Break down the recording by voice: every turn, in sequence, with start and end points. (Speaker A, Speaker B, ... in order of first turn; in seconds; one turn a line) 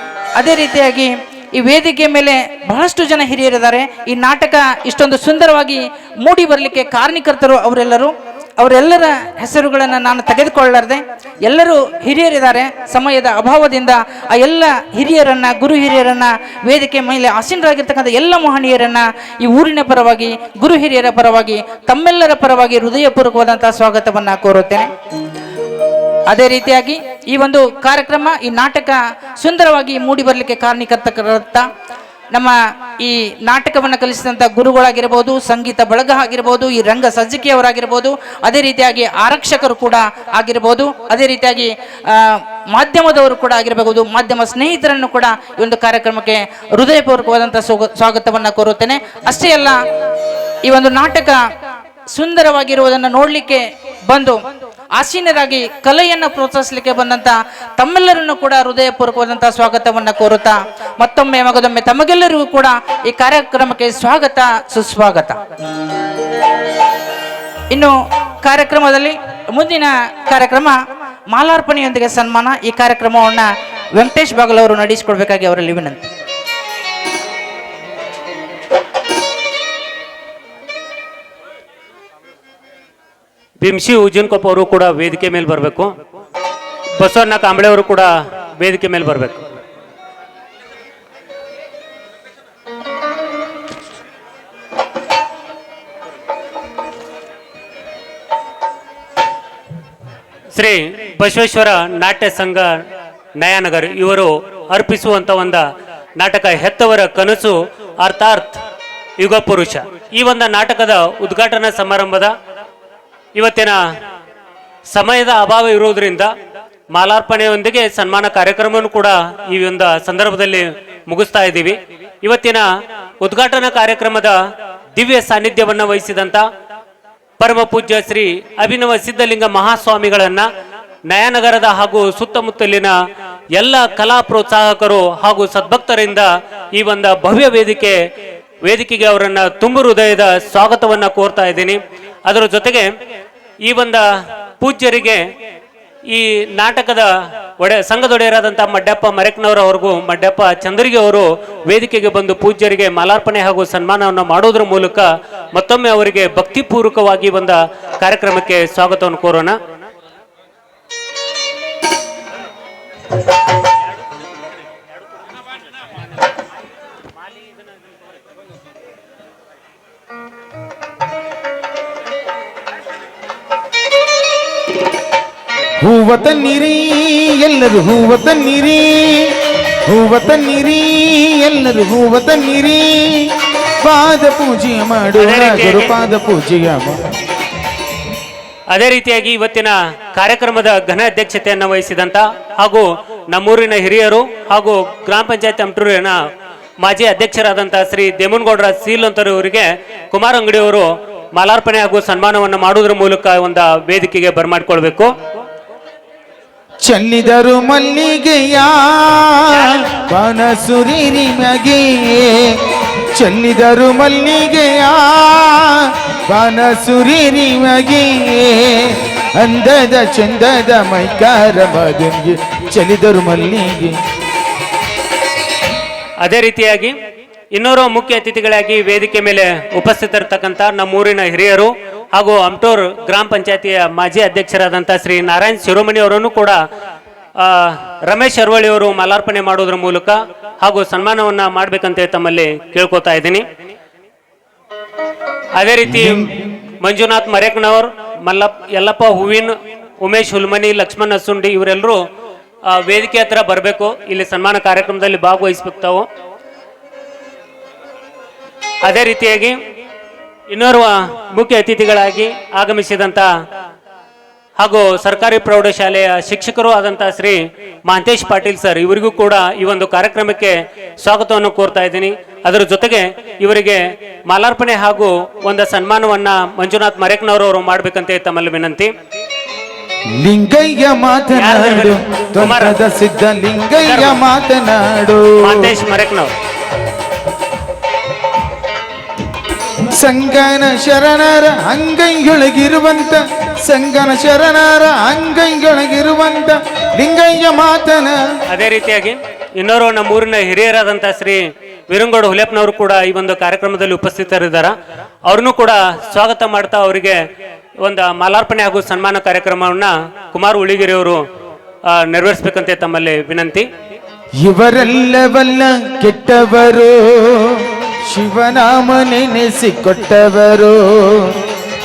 Speaker A: 0.4-24.9
Speaker A: 26.3-31.7
Speaker A: 32.3-49.8
Speaker A: 50.6-51.4
Speaker A: 52.1-54.4
Speaker A: 55.0-65.4
Speaker A: 67.7-70.8
Speaker A: 71.3-76.1
Speaker B: 83.6-85.9
Speaker B: 87.0-89.4
Speaker B: 100.5-102.8
Speaker B: 103.4-105.6
Speaker B: 106.2-108.6
Speaker B: 109.2-112.3
Speaker B: 113.3-113.8
Speaker B: 114.9-116.3
Speaker B: 116.9-122.6
Speaker B: 123.2-124.3
Speaker B: 124.9-126.4
Speaker B: 127.4-130.5
Speaker B: 131.1-132.9
Speaker B: 133.6-136.2
Speaker B: 136.8-138.0
Speaker B: 138.7-142.9
Speaker B: 143.7-144.0
Speaker B: 144.6-145.2
Speaker B: 146.1-147.1
Speaker B: 147.6-159.5
Speaker C: 175.8-179.4
Speaker C: 179.9-183.3
Speaker C: 183.8-186.9
Speaker B: 185.2-185.9
Speaker B: 188.7-196.2
Speaker B: 196.8-205.1
Speaker C: 206.8-212.4
Speaker C: 213.2-223.9
Speaker B: 226.2-226.9
Speaker B: 227.5-236.6
Speaker B: 237.4-243.4
Speaker B: 245.6-246.3
Speaker C: 246.0-246.3
Speaker B: 246.8-252.0
Speaker B: 252.7-256.1
Speaker B: 258.8-259.6
Speaker B: 260.5-263.3
Speaker B: 264.6-278.9
Speaker C: 280.2-285.7
Speaker B: 281.4-282.8
Speaker B: 283.8-284.2
Speaker B: 285.4-286.3
Speaker C: 289.9-298.1
Speaker B: 298.5-304.7
Speaker B: 305.3-307.2
Speaker B: 307.8-311.2
Speaker B: 311.9-313.6
Speaker C: 314.4-321.4